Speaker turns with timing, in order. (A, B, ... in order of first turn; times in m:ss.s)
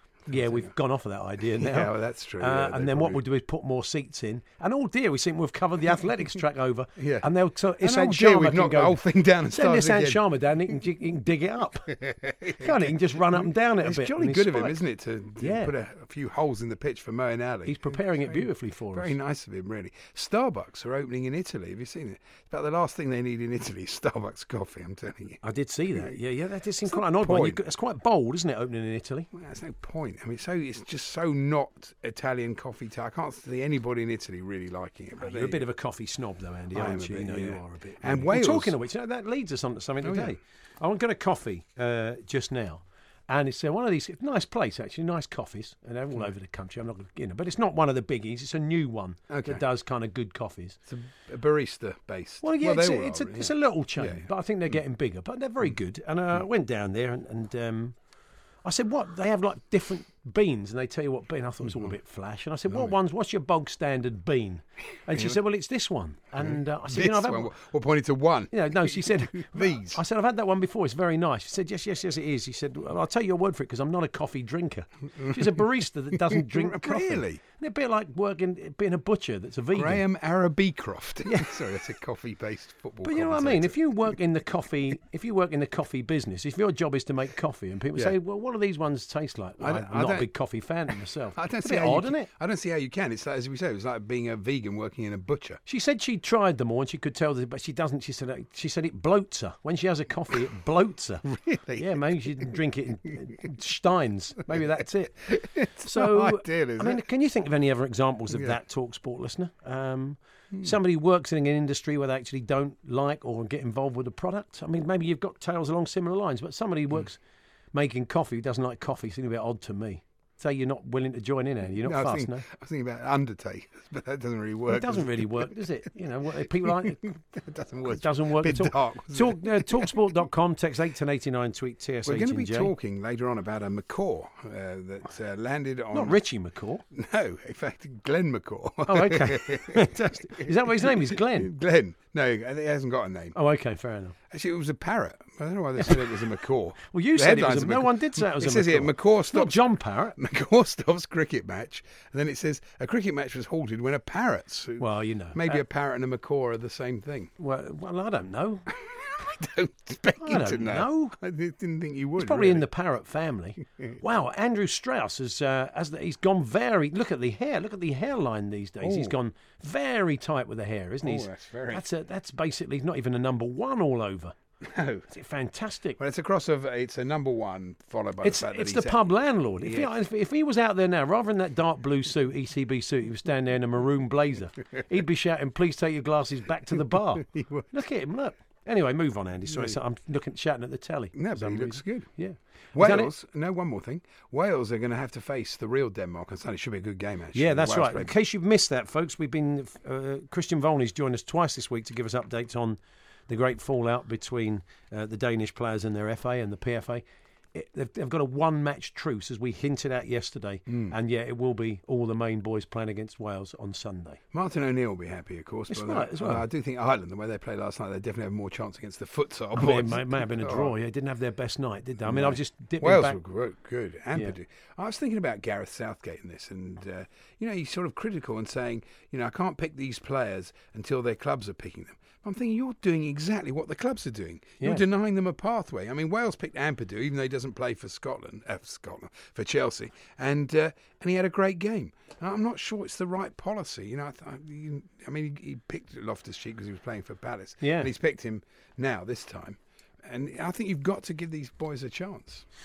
0:00.3-0:00.7 A
0:00.3-0:12.0 B
0:01.5-0:03.2 A
0:07.0-0:10.2 A
0:11.9-0:25.4 A
0:12.5-0:14.8 B
0:15.4-0:15.7 B
0:17.7-0:19.1 B
0:25.4-0:29.3 B
0:26.9-0:27.6 A
0:29.3-0:35.7 A
0:35.2-0:50.8 B
0:36.7-0:38.8 A
0:40.0-0:40.4 A
0:49.3-0:49.6 A
0:50.9-0:54.3 A
0:52.4-0:58.0 B
0:58.6-1:07.5 B
1:01.6-1:01.9 A
1:02.7-1:02.9 A
1:05.1-1:05.4 A
1:06.4-1:10.0 A
1:08.5-1:20.0 B
1:15.2-1:15.5 A
1:16.2-1:17.4 A
1:19.7-1:24.0 A
1:21.2-1:21.6 B
1:23.0-1:32.3 B
1:29.6-1:30.3 A
1:31.4-1:35.6 A
1:35.7-1:45.3 B
1:41.3-1:42.5 A
1:44.6-1:47.1 A
1:45.8-1:57.2 B
1:48.3-1:48.6 A
1:57.7-2:02.4 B
2:01.8-2:05.6 A
2:04.7-2:07.2 B
2:06.4-2:10.1 A
2:07.9-2:12.7 B
2:12.0-2:16.2 A
2:15.9-2:16.8 B
2:16.9-2:23.4 A
2:18.9-2:21.5 B
2:23.4-2:24.1 B
2:24.3-2:37.3 A
2:25.8-2:26.2 B
2:26.8-2:30.2 B
2:34.8-2:35.6 B
2:37.4-2:38.7 B
2:38.8-2:42.7 A
2:40.2-2:41.1 B
2:42.2-2:54.4 B
2:48.8-2:49.1 A
2:51.0-2:51.8 A
2:54.6-2:55.0 A
2:55.1-2:56.0 B
2:56.0-2:59.0 A
2:58.2-3:13.1 B
2:59.6-2:59.9 A
3:06.7-3:07.7 A
3:09.5-3:09.8 A
3:11.1-3:12.1 A
3:12.7-3:18.1 A
3:17.3-3:27.0 B
3:27.5-3:34.2 B
3:30.7-3:30.9 A
3:34.3-3:40.7 A
3:35.7-3:36.4 B
3:39.6-3:43.2 B
3:42.0-4:12.4 A
4:07.6-4:07.9 B